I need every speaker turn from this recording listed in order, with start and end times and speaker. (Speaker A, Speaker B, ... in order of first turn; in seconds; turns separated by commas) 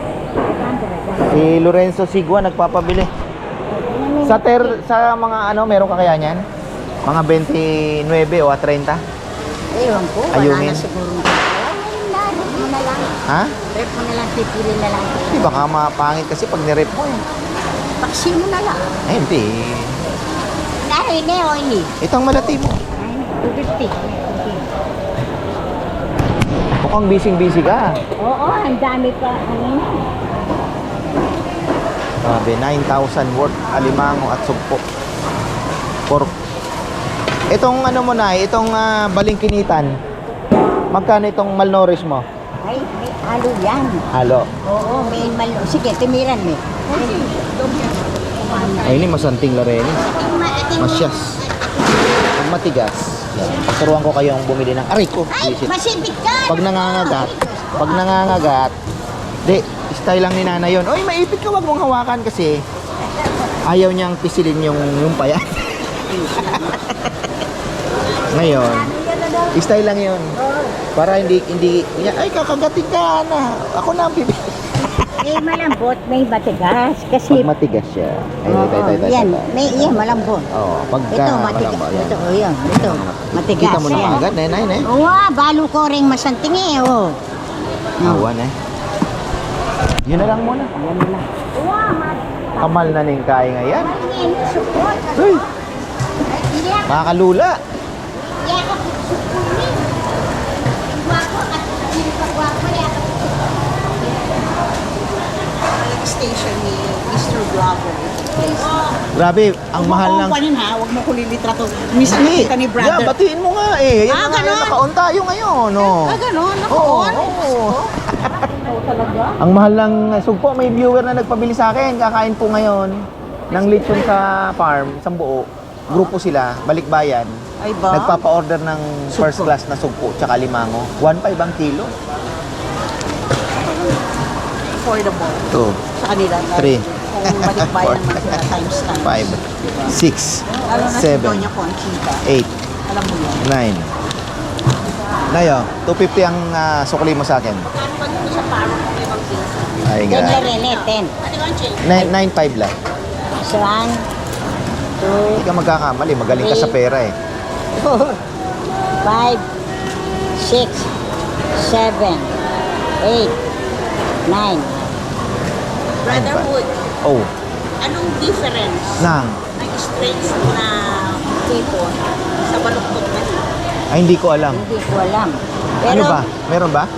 Speaker A: 0.4-1.6, Speaker B: 1.3-3.1, Speaker A: 3.7-4.8, Speaker B: 4.2-6.4, Speaker B: 7.1-9.0, Speaker A: 9.7-15.7, Speaker B: 10.3-10.8, Speaker B: 13.3-13.6, Speaker B: 15.3-17.2, Speaker A: 18.0-18.9, Speaker B: 19.1-20.0, Speaker A: 20.9-21.9, Speaker B: 22.0-22.8, Speaker A: 23.0-24.7, Speaker B: 26.8-28.0, Speaker A: 28.2-29.9, Speaker B: 32.2-34.8, Speaker B: 37.5-39.9, Speaker B: 40.9-42.2, Speaker A: 42.6-44.0, Speaker B: 44.1-44.5, Speaker A: 44.6-47.3, Speaker C: 47.3-47.9, Speaker A: 48.5-49.0, Speaker B: 48.8-50.0, Speaker A: 50.1-51.8, Speaker B: 50.8-51.4, Speaker B: 52.4-55.7, Speaker A: 55.3-58.6, Speaker B: 56.5-58.7, Speaker B: 59.5-62.6, Speaker B: 63.6-65.4, Speaker A: 66.4-66.7, Speaker B: 66.5-66.9, Speaker B: 68.3-68.9, Speaker B: 69.5-70.4, Speaker A: 70.4-70.7, Speaker B: 71.0-75.3, Speaker A: 75.2-77.5, Speaker B: 77.3-80.0, Speaker A: 78.5-80.5, Speaker B: 80.5-84.9, Speaker A: 81.1-84.3, Speaker A: 84.8-87.2, Speaker A: 88.0-88.3, Speaker B: 88.0-88.5, Speaker B: 90.0-90.7, Speaker A: 90.7-92.9, Speaker B: 92.6-93.9, Speaker A: 93.7-95.5, Speaker B: 95.2-95.5, Speaker A: 96.2-97.0, Speaker B: 96.9-97.6, Speaker A: 98.1-100.0, Speaker A: 100.8-103.9, Speaker C: 105.6-109.0, Speaker A: 108.6-109.0, Speaker B: 109.1-110.4, Speaker C: 109.8-113.1, Speaker B: 112.0-118.5, Speaker C: 114.1-114.8, Speaker C: 115.8-117.9, Speaker C: 118.6-119.4, Speaker B: 119.4-131.9, Speaker C: 127.6-128.2, Speaker C: 129.2-129.5, Speaker C: 133.6-134.0, Speaker C: 134.7-139.9, Speaker B: 135.5-135.8, Speaker B: 136.5-138.3, Speaker B: 139.0-141.5, Speaker C: 140.5-142.2, Speaker B: 142.2-142.5, Speaker C: 142.9-143.4, Speaker B: 143.4-143.9, Speaker B: 145.3-147.7, Speaker C: 147.7-152.1, Speaker B: 149.8-150.4, Speaker A: 150.1-151.1, Speaker B: 151.8-152.7, Speaker A: 153.4-154.1, Speaker A: 155.0-155.4, Speaker B: 155.3-157.2, Speaker A: 156.3-156.8, Speaker A: 157.8-158.2, Speaker A: 159.0-159.4, Speaker A: 160.4-160.9, Speaker A: 161.5-162.3, Speaker A: 163.0-163.4, Speaker A: 164.3-164.8, Speaker C: 166.0-166.8, Speaker B: 166.1-167.3, Speaker C: 167.8-173.5, Speaker B: 169.0-169.4, Speaker B: 173.9-174.6, Speaker A: 174.5-176.3, Speaker B: 175.8-176.9